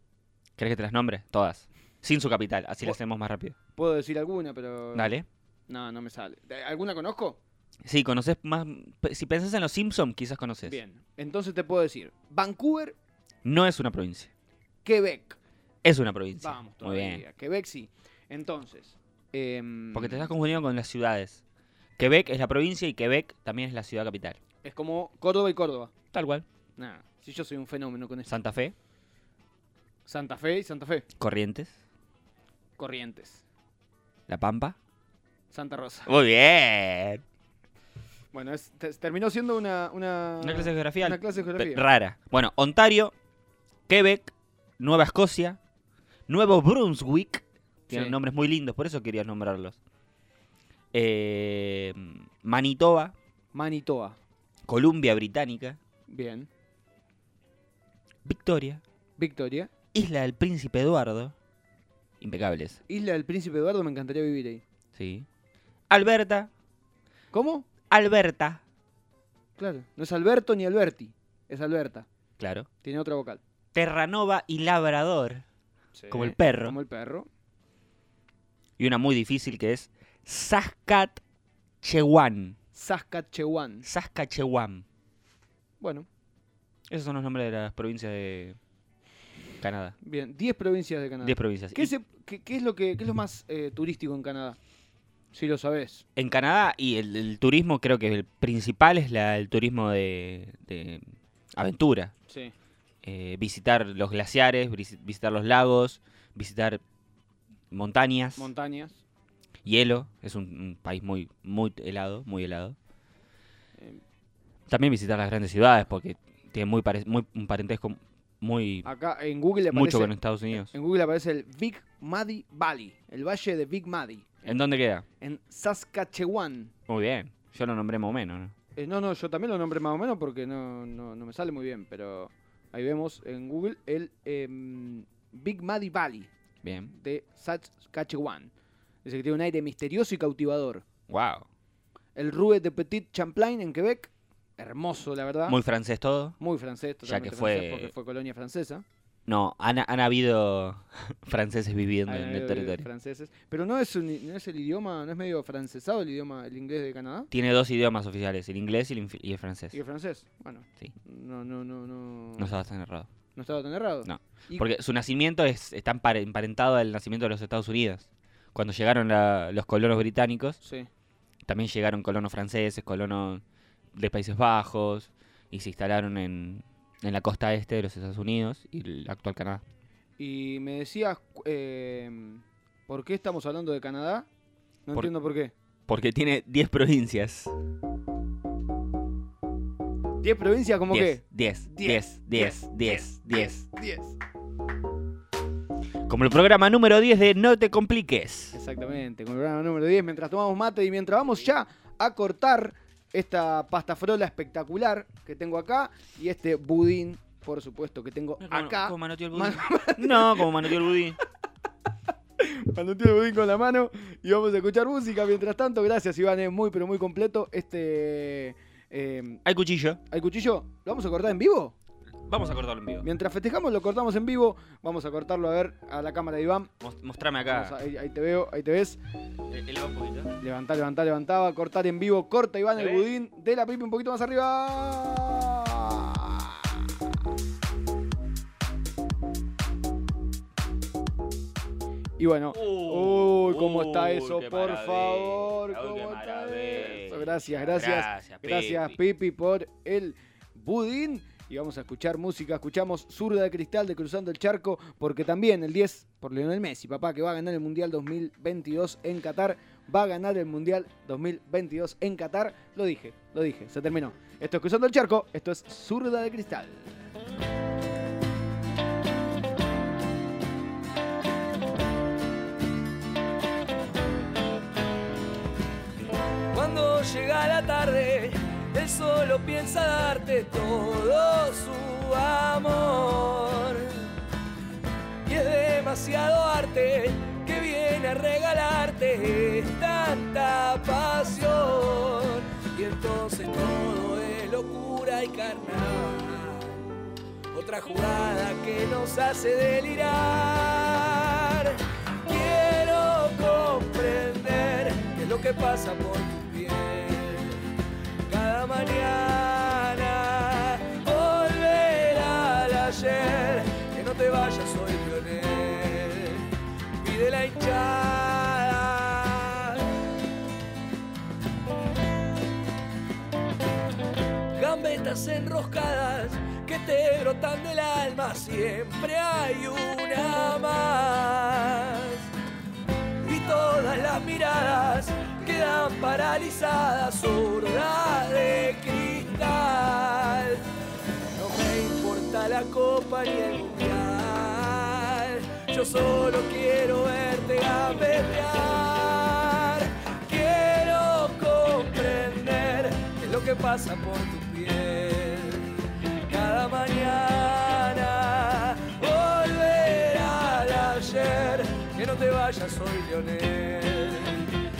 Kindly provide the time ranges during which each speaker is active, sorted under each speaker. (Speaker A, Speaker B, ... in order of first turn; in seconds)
Speaker A: 0.6-3.5, 4.9-5.3, 7.8-10.8, 13.4-14.3, 15.8-17.2, 19.9-21.4, 22.0-24.4, 26.1-26.4, 28.3-28.7, 31.2-31.8, 34.3-34.8, 36.1-37.2, 40.4-43.1, 43.9-45.6, 46.3-49.8, 50.9-53.1, 54.6-55.8, 58.2-58.8, 59.9-61.3, 62.2-62.8, 64.9-65.3, 65.9-66.5, 67.9-68.6, 72.4-72.7, 73.7-75.4, 76.1-76.8, 78.8-81.2, 81.8-82.6, 83.8-84.8, 86.9-88.6, 89.6-90.0, 91.2-91.9, 96.2-102.1, 103.0-106.8, 107.7-108.5, 109.6-112.8, 114.7-118.9, 119.7-120.7, 124.4-125.0, 126.9-128.5, 136.6-136.9, 141.1-141.5, 145.4-146.4, 147.0-147.9, 149.3-152.8, 157.3-159.8, 162.4-163.1, 164.0-170.6, 171.4-179.6, 185.9-187.5, 190.9-193.6, 196.1-198.6, 208.4-211.2, 219.4-220.0, 222.2-223.1, 226.8-227.7, 229.5-230.3, 232.7-233.1, 242.5-249.0
Speaker B: 3.8-5.1, 5.7-7.4, 10.6-12.9, 14.8-15.4, 16.4-20.3, 24.6-25.9, 26.8-28.3, 30.1-31.0, 32.8-33.4, 35.5-36.1, 38.3-41.8, 47.9-48.1, 53.5-54.2, 56.1-56.5, 59.2-59.7, 62.9-64.6, 67.3-67.7, 69.6-72.0, 72.8-73.4, 75.9-77.3, 82.7-83.9, 85.8-86.1, 90.0-94.6, 95.3-96.0, 102.3-102.5, 108.4-109.0, 118.8-124.6, 125.2-126.7, 128.8-136.3, 136.9-138.5, 139.0-140.8, 142.2-145.6, 146.4-148.8, 152.1-157.3, 159.7-162.5, 163.3-164.7, 170.6-170.9, 180.2-184.3, 184.8-185.5, 190.2-194.2, 198.5-210.8, 212.4-219.4, 220.1-221.7, 223.0-226.7, 227.5-229.0, 230.4-236.7, 242.2-266.9
Speaker C: 276.5-284.0, 285.2-296.8, 297.5-307.6, 308.3-316.5, 317.0-319.9, 324.6-332.3, 333.2-340.6, 341.3-355.7, 356.3-364.4